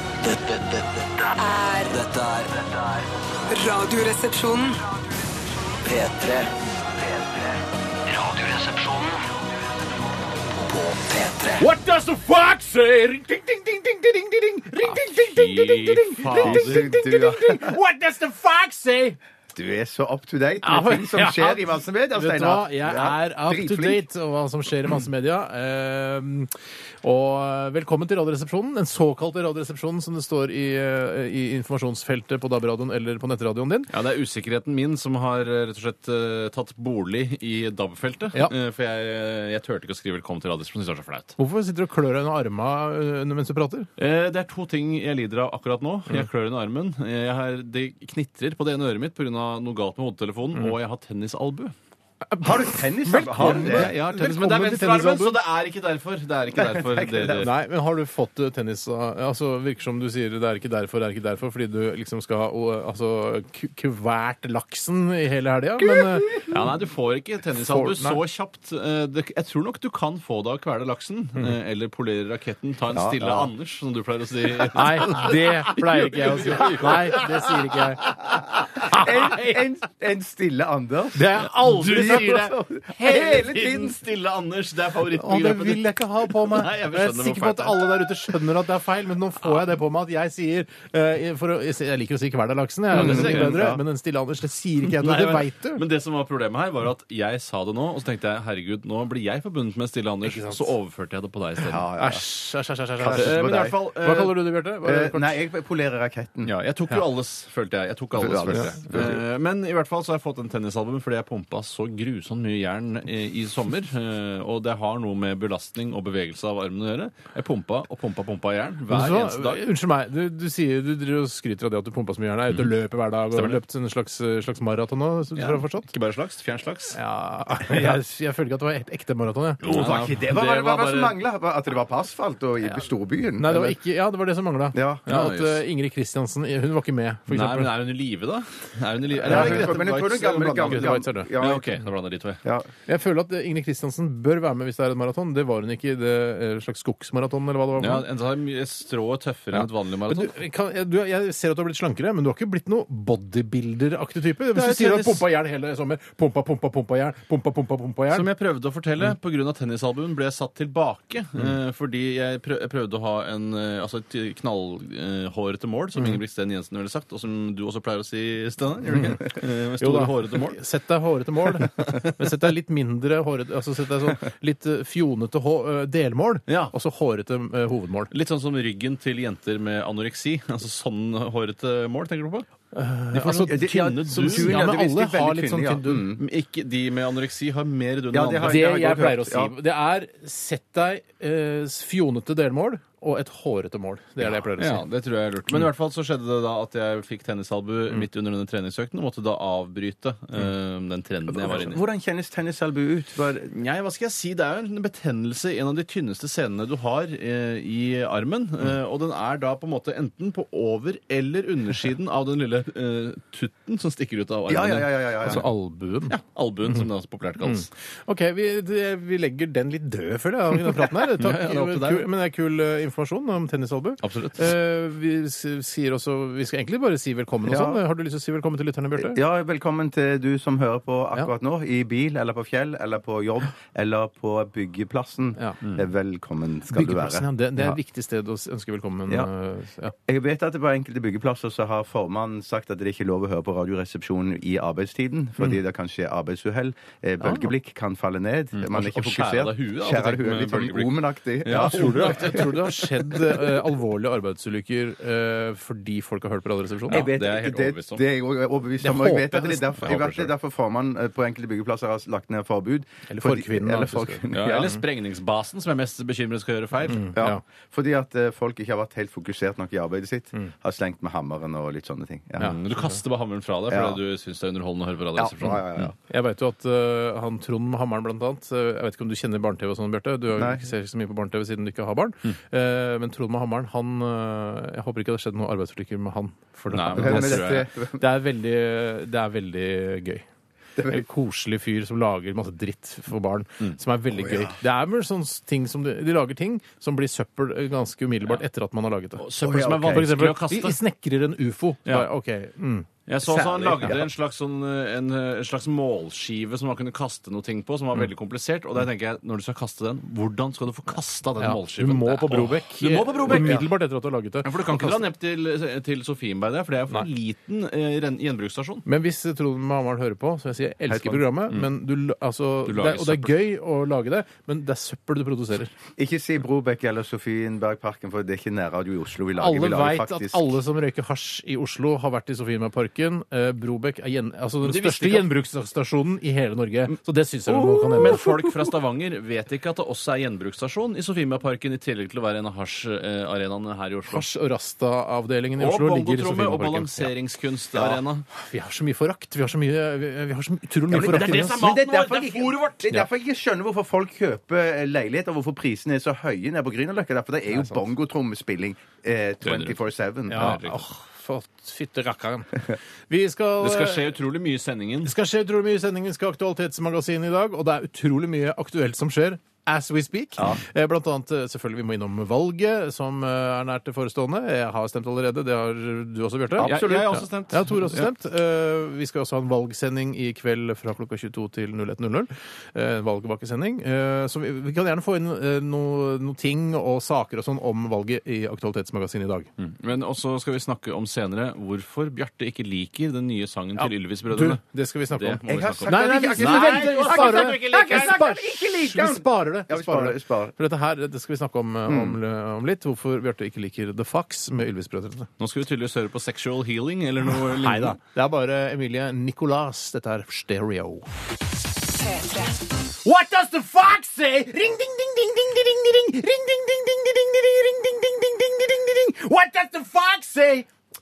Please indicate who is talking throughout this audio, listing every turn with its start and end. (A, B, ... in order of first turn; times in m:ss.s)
0:00.2-0:01.3 A
0:01.4-0:02.0 B
0:01.9-0:03.1 A
0:03.5-0:04.8 B
0:05.8-0:09.3 A
0:10.6-0:11.7 A
0:11.6-0:19.2 C
0:14.8-0:16.8 D
0:16.3-0:17.8 E
0:19.5-0:24.0 E
0:20.6-0:26.5 C
0:27.0-0:33.9 C
0:33.9-0:41.4 D
0:41.4-0:43.9 C
0:44.0-0:51.7 D
0:52.3-0:55.4 C
0:52.4-0:53.9 E
0:53.3-0:57.5 D
0:56.6-0:57.3 E
0:57.2-1:06.5 C
1:06.4-1:17.5 D
1:07.6-1:08.2 C
1:12.9-1:13.5 E
1:14.7-1:18.1 C
1:18.0-1:18.7 D
1:18.4-1:21.2 E
1:18.9-1:19.6 C
1:21.2-1:23.3 C
1:21.6-1:22.4 D
1:21.9-1:24.0 E
1:23.0-1:28.1 D
1:25.1-1:35.8 C
1:32.9-1:33.8 D
1:32.9-1:33.8 E
1:34.8-1:41.9 D
1:40.2-1:40.7 C
1:41.6-1:42.2 E
1:42.0-1:45.4 C
1:43.0-1:43.8 E
1:43.1-1:44.4 D
1:44.8-1:47.0 E
1:46.4-1:59.6 D
1:48.2-1:49.2 E
1:58.9-2:05.9 C
2:03.3-2:03.6 D
2:05.4-2:07.0 D
2:06.9-2:09.6 C
2:09.6-2:11.2 D
2:09.6-2:13.8 E
2:13.4-2:17.7 C
2:14.7-2:15.1 E
2:15.1-2:15.6 D
2:17.3-2:22.4 D
2:19.2-2:19.7 C
2:19.2-2:21.8 E
2:20.7-2:21.3 C
2:22.4-2:22.7 E
2:22.9-2:28.0 C
2:27.8-2:30.4 D
2:29.5-2:38.3 C
2:34.5-2:35.3 D
2:38.1-2:50.6 D
2:49.8-2:58.1 C
2:56.5-2:56.7 D
2:58.1-3:02.5 D
3:02.7-3:06.1 C
3:03.1-3:04.7 D
3:03.3-3:06.2 E
3:06.2-3:08.7 D
3:08.1-3:09.5 E
3:08.4-3:14.8 C
3:14.6-3:21.8 D
3:21.3-3:23.5 E
3:23.5-3:35.4 D
3:34.5-3:35.4 E
3:35.3-3:36.2 C
3:36.1-3:37.7 D
3:37.4-3:49.2 C
3:41.0-3:42.0 D
3:44.0-3:44.4 D
3:47.5-3:47.8 E
3:49.0-3:57.8 E
3:56.7-3:59.9 C
4:00.1-4:12.6 E
4:07.2-4:07.5 C
4:08.6-4:12.9 D
4:11.5-4:17.1 C
4:16.9-4:18.0 D
4:16.9-4:24.8 E
4:18.8-4:19.9 C
4:19.8-4:20.3 D
4:23.1-4:24.2 C
4:24.3-4:27.1 D
4:26.9-4:27.4 C
4:27.2-4:32.5 E
4:32.4-4:35.9 D
4:33.7-4:34.0 E
4:35.2-4:36.0 E
4:36.1-4:50.3 C
4:40.4-4:40.7 E
4:46.7-4:47.7 D
4:47.0-4:48.1 E
4:50.8-4:51.0 E
4:50.9-5:04.0 C
4:54.2-4:54.6 E
4:59.2-5:00.8 D
4:59.4-5:00.1 E
5:03.1-5:13.6 D
5:03.4-5:03.9 E
5:11.4-5:15.0 C
5:13.3-5:13.7 E
5:14.4-5:18.8 D
5:18.9-5:25.7 C
5:20.9-5:21.2 E
5:22.7-5:23.4 D
5:26.0-5:30.5 E
5:29.4-5:38.2 C
5:34.6-5:35.3 D
5:37.8-5:38.4 E
5:38.0-5:44.3 D
5:44.1-5:47.1 C
5:45.6-5:48.2 D
5:47.8-5:51.6 C
5:50.9-5:52.8 D
5:50.9-6:00.6 E
5:59.4-5:59.8 D
6:00.3-6:04.1 C
6:00.3-6:00.8 D
6:03.6-6:05.1 D
6:05.0-6:29.5 C
6:16.6-6:18.1 D
6:16.6-6:17.2 E
6:29.6-6:34.6 D
6:33.8-6:45.3 C
6:35.1-6:38.2 D
6:35.5-6:40.5 E
6:41.9-6:42.2 E
6:45.4-6:48.0 D
6:47.6-6:51.1 C
6:51.9-6:52.6 B
6:53.0-7:00.7 C